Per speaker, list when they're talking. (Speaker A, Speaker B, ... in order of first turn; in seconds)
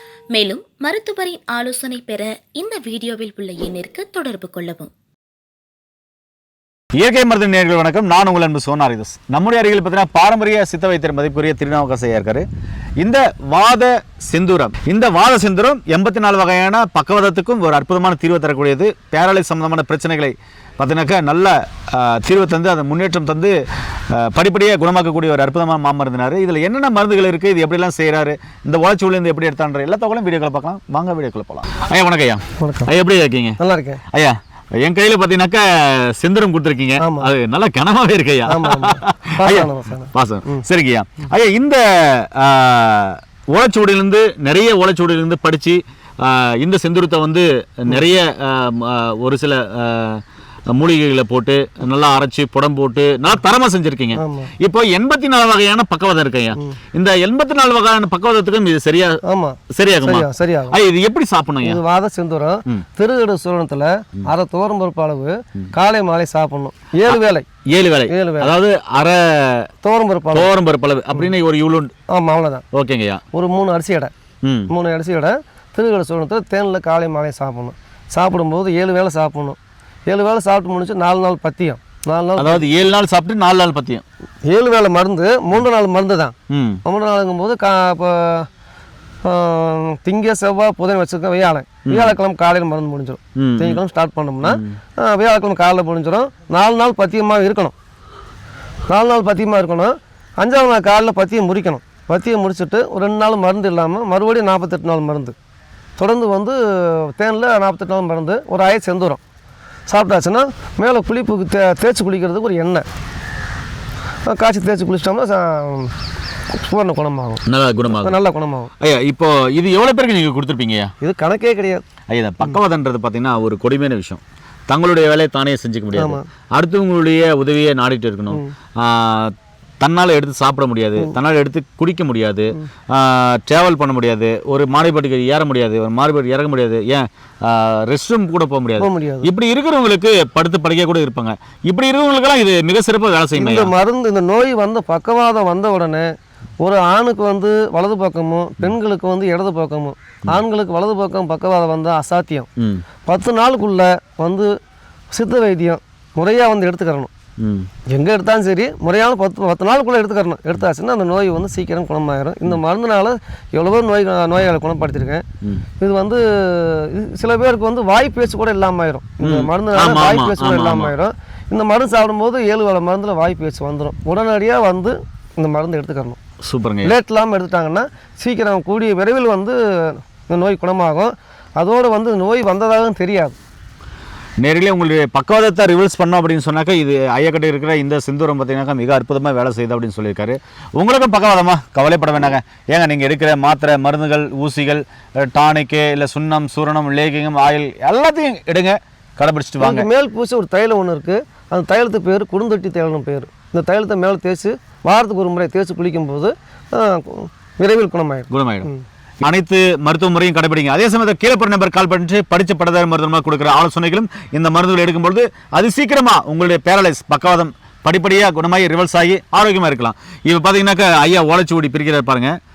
Speaker A: 0.3-4.9
Speaker B: 7.0-12.4, 13.0-23.5, 24.1-33.6, 34.1-50.2, 50.7-59.2, 59.7-61.8, 67.1-69.7, 70.3-71.9, 72.7-73.2, 74.4-74.7, 82.4-84.0, 86.5-86.8, 91.9-92.2, 93.4-93.8, 94.4-94.8, 117.5-118.2, 118.8-120.9, 122.1-143.7, 152.6-152.8, 157.4-157.7, 169.2-170.9, 176.4-176.9, 184.4-199.9, 208.3-208.7, 209.2-222.4
Speaker C: 32.6-32.9, 33.6-34.0, 37.0-37.3, 38.5-40.6, 54.2-54.5, 59.3-60.8, 61.6-67.5, 68.1-68.5, 69.8-70.5, 72.1-72.7, 73.3-74.1, 74.7-82.7, 84.5-88.5, 89.2-97.8, 98.9-105.3, 106.0-109.2, 109.9-112.9, 114.3-115.9, 116.5-118.7, 121.0-121.8, 125.9-126.2, 138.8-139.3, 143.4-152.5, 153.1-154.5, 155.1-157.1, 157.9-165.3, 165.8-176.2, 176.8-183.4, 199.6-208.8